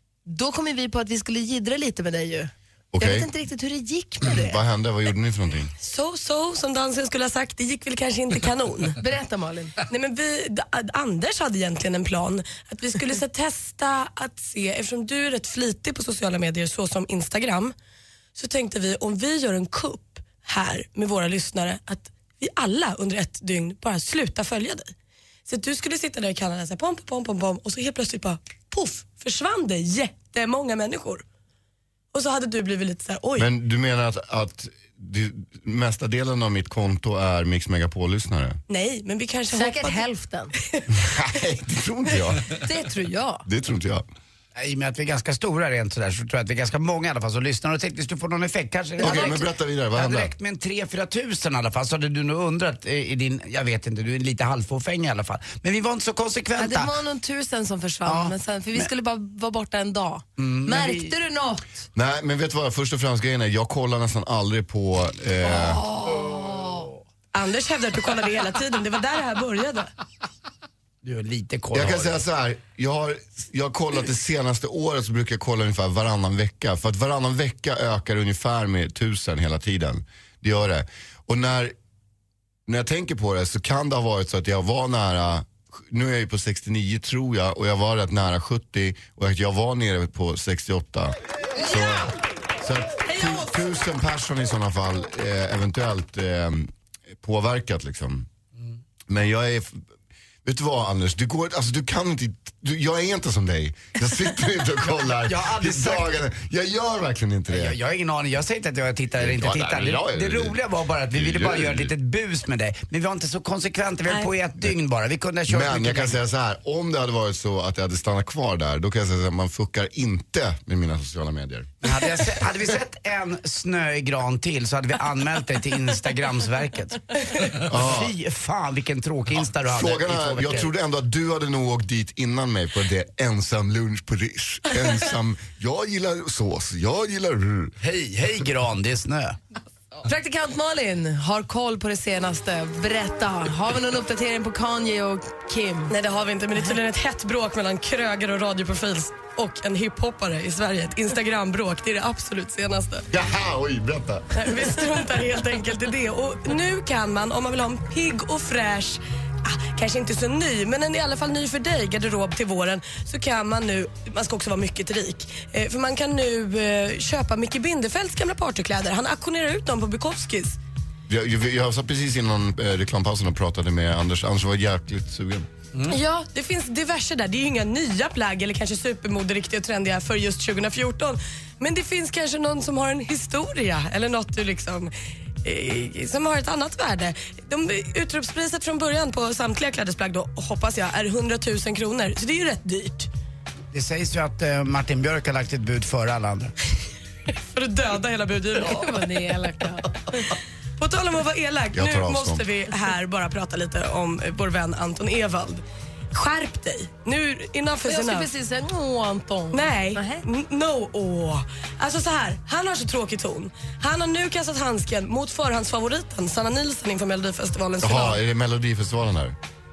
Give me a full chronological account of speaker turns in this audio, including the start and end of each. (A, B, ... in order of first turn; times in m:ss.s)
0:00.2-0:04.6 A
0:02.9-0:03.3 B
0:04.2-0:05.7 B
0:05.8-0:09.0 C
0:09.0-0:09.7 A
0:09.9-0:17.7 C
0:18.4-0:24.9 C
0:25.5-0:31.2 C
0:32.1-0:33.5 C
0:33.4-0:38.6 B
0:38.7-0:40.0 C
0:39.5-0:40.5 A
0:40.9-0:42.5 B
0:42.6-0:43.4 A
0:43.4-0:44.0 B
0:44.6-0:56.9 D
0:49.0-0:50.3 B
0:49.0-0:49.4 A
0:56.6-1:01.8 A
0:58.0-0:58.9 D
1:00.4-1:01.1 D
1:01.9-1:05.8 B
1:05.4-1:06.9 A
1:07.3-1:09.9 C
1:11.0-1:12.2 D
1:11.7-1:21.7 B
1:22.7-1:38.3 B
1:33.1-1:33.4 A
1:39.1-1:39.8 B
1:40.4-1:47.8 B
1:45.2-1:46.1 D
1:47.5-1:56.2 D
1:49.1-1:50.6 B
1:51.1-1:51.9 B
1:55.5-2:01.7 B
2:01.8-2:10.7 D
2:07.6-2:08.1 B
2:09.3-2:17.8 B
2:17.8-2:19.4 D
2:20.0-2:25.9 A
2:25.9-2:33.1 C
2:33.1-2:34.5 B
2:34.4-2:50.6 C
2:51.1-2:55.5 B
2:55.9-3:04.9 C
3:05.4-3:13.1 C
3:13.7-3:16.5 D
3:17.5-3:19.0 C
3:18.6-3:19.9 A
3:20.8-3:28.3 C
3:21.7-3:22.4 B
3:27.8-3:30.2 A
3:29.5-3:38.2 C
3:37.8-3:39.4 B